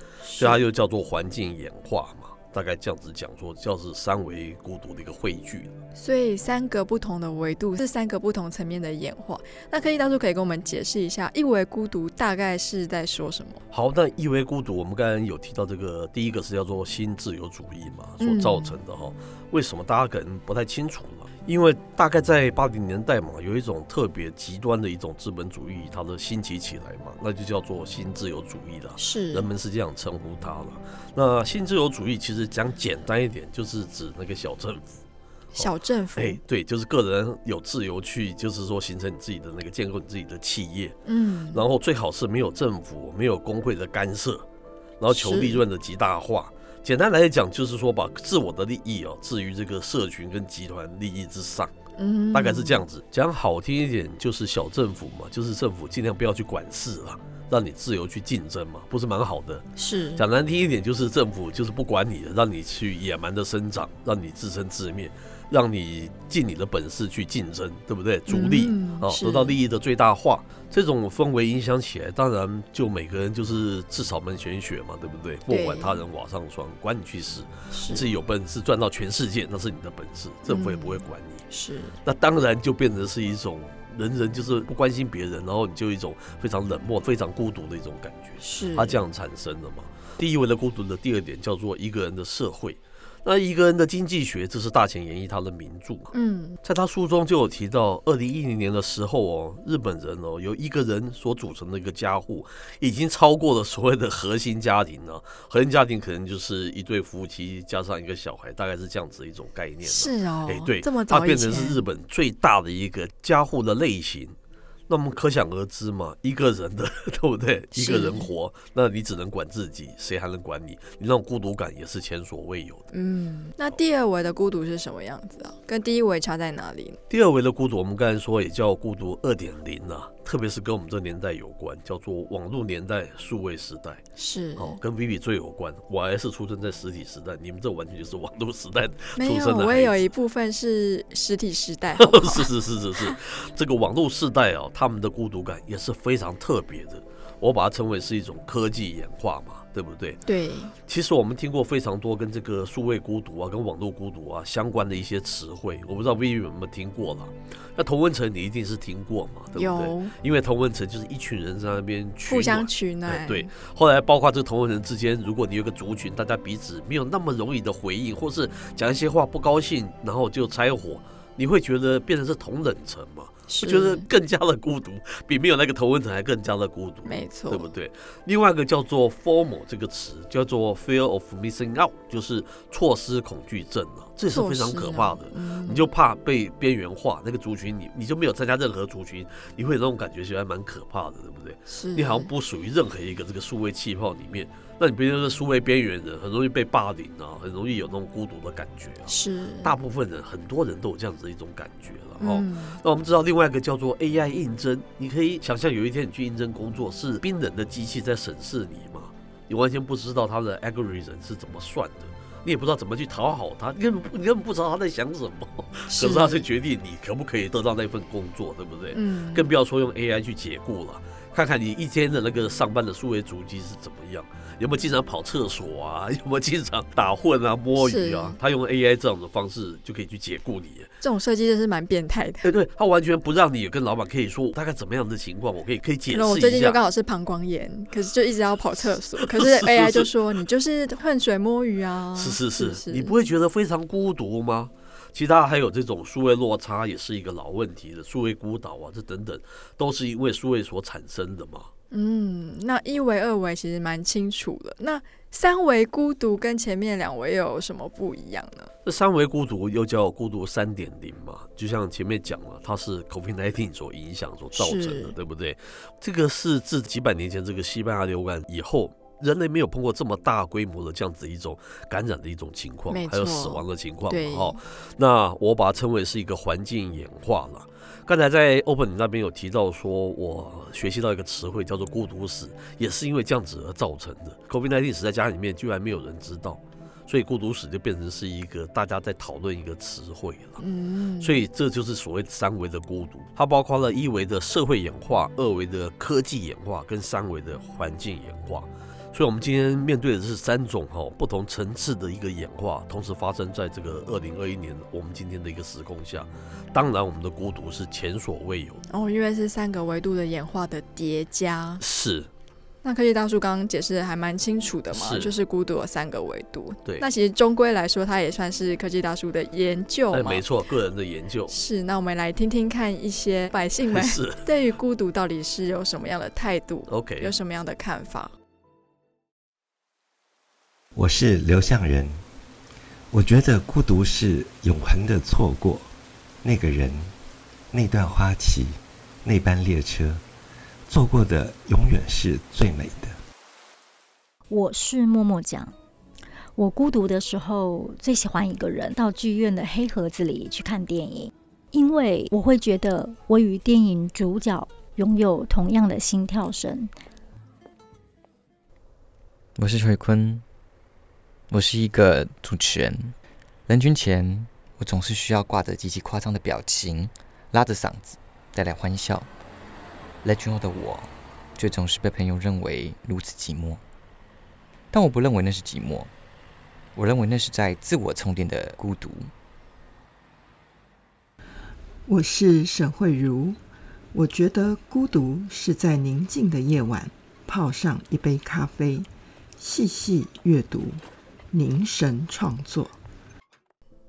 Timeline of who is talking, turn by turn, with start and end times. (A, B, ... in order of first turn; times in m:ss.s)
0:00.2-0:00.6 A
0:00.4-0:05.7 B
0:06.0-0:13.6 A
0:13.7-0:35.0 B
0:18.2-0:18.8 A
0:29.0-0:29.5 A
0:35.5-0:41.0 B
0:35.6-0:36.4 A
0:41.0-0:41.6 A
0:41.5-0:44.4 B
0:45.0-0:51.7 B
0:45.1-0:45.6 A
0:52.0-0:52.8 A
0:52.3-1:21.4 B
0:59.8-1:00.2 A
1:08.3-1:09.6 A
1:15.5-1:16.0 A
1:17.7-1:18.1 A
1:20.5-1:22.0 A
1:22.0-1:54.4 B
1:28.4-1:29.0 A
1:36.1-1:36.6 A
1:49.8-1:51.8 A
1:54.9-2:02.8 B
1:57.8-1:58.3 A
2:02.9-2:07.0 A
2:07.1-2:14.0 B
2:14.2-2:14.8 A
2:14.6-2:20.1 B
2:19.2-2:22.5 A
2:22.0-2:30.2 B
2:30.3-2:30.7 A
2:30.9-3:50.9 B
2:39.6-2:40.1 A
2:42.3-2:43.5 A
2:53.5-2:54.1 A
2:57.0-2:57.7 A
3:04.3-3:05.9 A
3:11.7-3:12.3 A
3:19.1-3:19.7 A
3:22.2-3:22.8 A
3:35.9-3:36.4 A
3:38.9-3:39.5 A
3:47.8-3:48.4 A
3:51.0-3:52.5 A
3:52.4-3:56.8 B
3:56.1-4:03.2 A
3:59.2-4:00.1 B
4:02.2-4:11.7 B
4:11.9-4:18.7 A
4:18.8-4:50.6 B
4:24.6-4:25.2 A
4:32.9-4:34.6 A
4:50.6-4:51.4 A
4:51.2-5:08.8 B
5:08.9-5:11.8 A
5:11.8-5:12.3 B
5:12.8-5:20.4 A
5:14.9-5:15.3 B
5:20.1-5:21.6 B
5:21.5-5:28.3 A
5:23.9-5:24.4 B
5:26.9-5:27.3 B
5:31.0-5:32.2 C
5:33.1-5:35.9 C
5:36.4-5:37.1 C
5:37.7-5:40.2 C
5:40.9-5:43.2 C
5:44.5-5:45.7 D
5:46.6-5:56.9 D
5:59.6-6:00.4 E
6:01.5-6:03.2 E
6:03.7-6:09.3 E
6:10.2-6:13.8 E
6:14.9-6:16.1 E
6:17.0-6:19.3 E
6:22.1-6:23.6 F
6:24.1-6:29.1 F
6:29.6-6:32.9 F